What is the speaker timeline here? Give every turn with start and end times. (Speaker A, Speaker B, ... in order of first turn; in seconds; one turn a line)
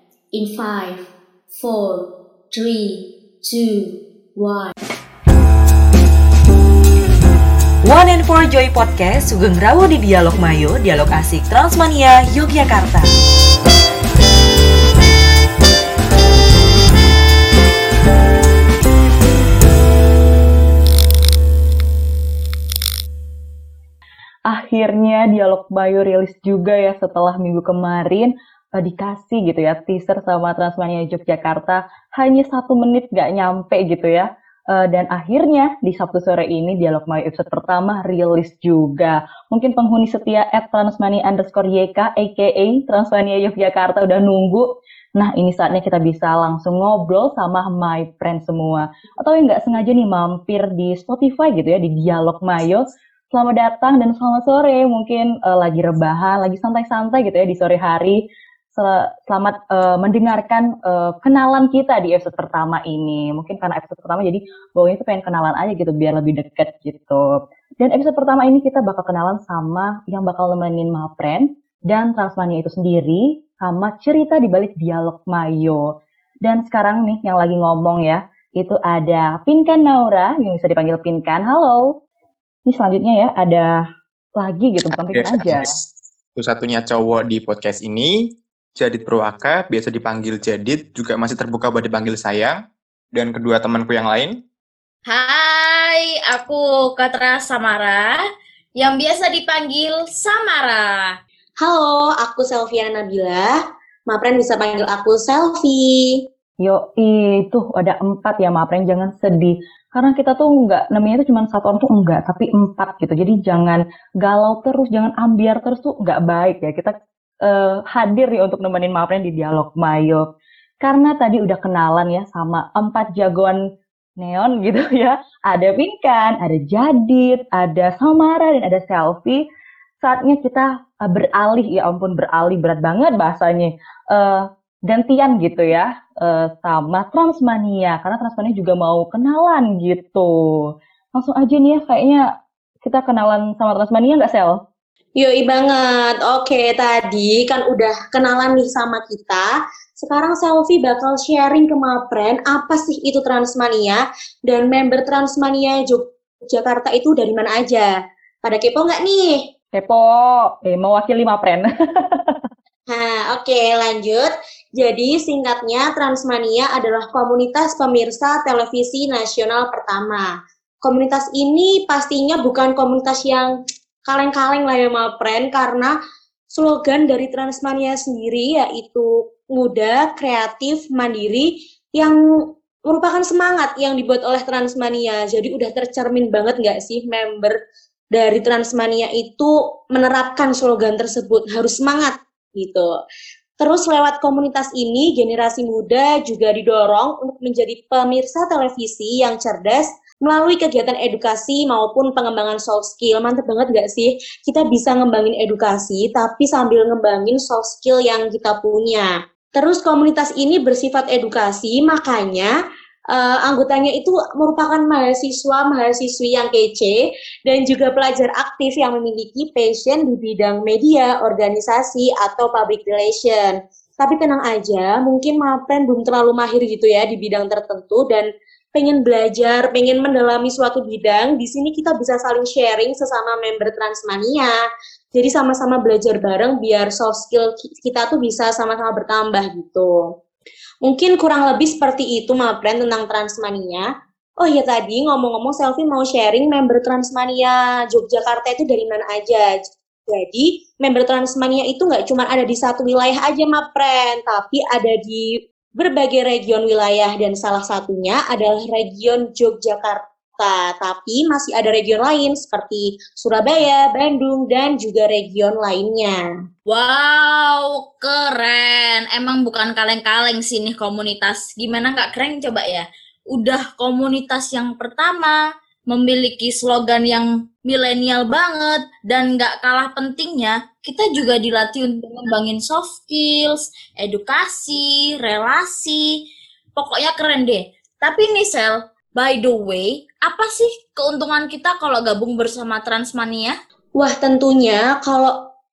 Speaker A: 0.3-4.7
Speaker B: 7.8-13.1
Speaker C: 24.5-58.2
Speaker C: 58.7-67.3
Speaker C: 67.8-75.9
Speaker C: 76.4-81.9
Speaker C: 82.7-83.8
Speaker C: 84.4-85.7
Speaker D: 84.8-88.1
Speaker D: 88.8-92.6
Speaker D: 93.1-94.3
Speaker E: 95.1-98.2
Speaker E: 98.8-101.1
Speaker F: 101.6-103.5
Speaker F: 104.1-106.2
Speaker C: 106.6-116.9
Speaker C: 117.4-120.2
Speaker C: 120.8-123.6
Speaker C: 124.2-129.4
Speaker C: 130.0-142.2
Speaker C: 142.8-144.6
Speaker F: 145.2-157.9
Speaker F: 158.4-159.4
Speaker C: 159.7-162.3
Speaker F: 162.9-170.3
Speaker F: 170.8-173.5
Speaker F: 174.1-175.9
Speaker F: 176.5-182.2
Speaker F: 182.9-187.5
Speaker F: 188.1-192.9
Speaker F: 193.6-212.5
Speaker F: 213.1-234.6
Speaker F: 235.1-239.9
Speaker F: 240.8-243.8
Speaker F: 244.4-255.2
Speaker F: 255.8-266.2
Speaker E: 266.6-275.4
Speaker E: 275.9-286.0
Speaker E: 286.8-293.5
Speaker F: 293.9-295.3